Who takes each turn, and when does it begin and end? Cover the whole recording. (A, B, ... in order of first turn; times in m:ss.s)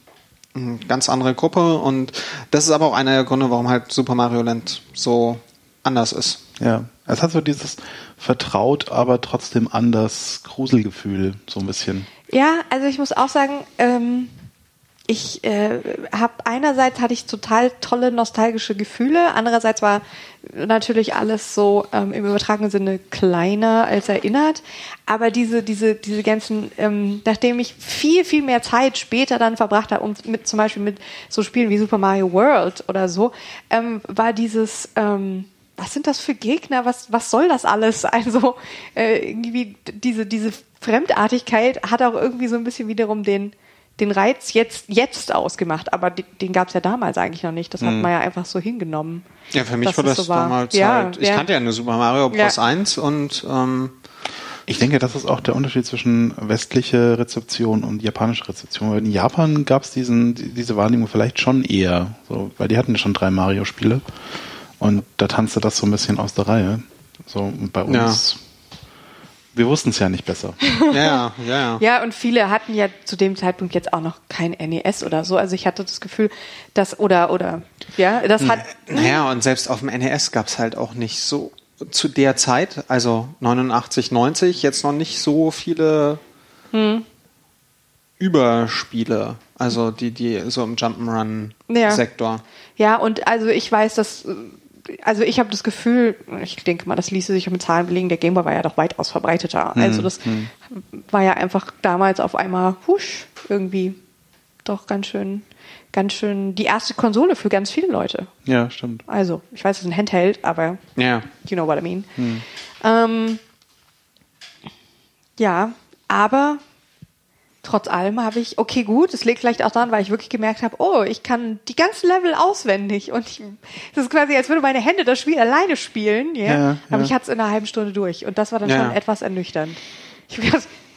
0:00.5-0:06.4 A
0:06.6-0:12.1 B
0:12.3-0:14.3 C
0:15.1-0:49.2 C
0:47.8-0:48.1 B
0:49.5-0:53.9 A
0:49.8-0:51.5 C
0:52.3-0:52.6 C
0:54.7-1:04.0 B
1:04.8-1:08.4 B
1:07.9-1:08.2 A
1:09.5-1:10.6 B
1:10.6-1:11.2 C
1:10.9-1:11.8 A
1:11.8-1:19.2 C
1:18.9-1:26.2 A
1:26.7-1:27.0 C
1:28.2-1:32.4 A
1:31.7-1:32.0 C
1:32.8-1:44.0 C
1:39.7-1:40.5 B
1:44.6-1:48.3 C
1:48.4-1:49.0 B
1:49.1-1:52.2 C
1:51.0-1:51.3 A
1:52.2-1:52.4 B
1:52.8-1:53.4 C
1:55.4-1:56.6 C
1:57.6-2:10.7 C
2:06.4-2:07.1 B
2:08.6-2:09.0 A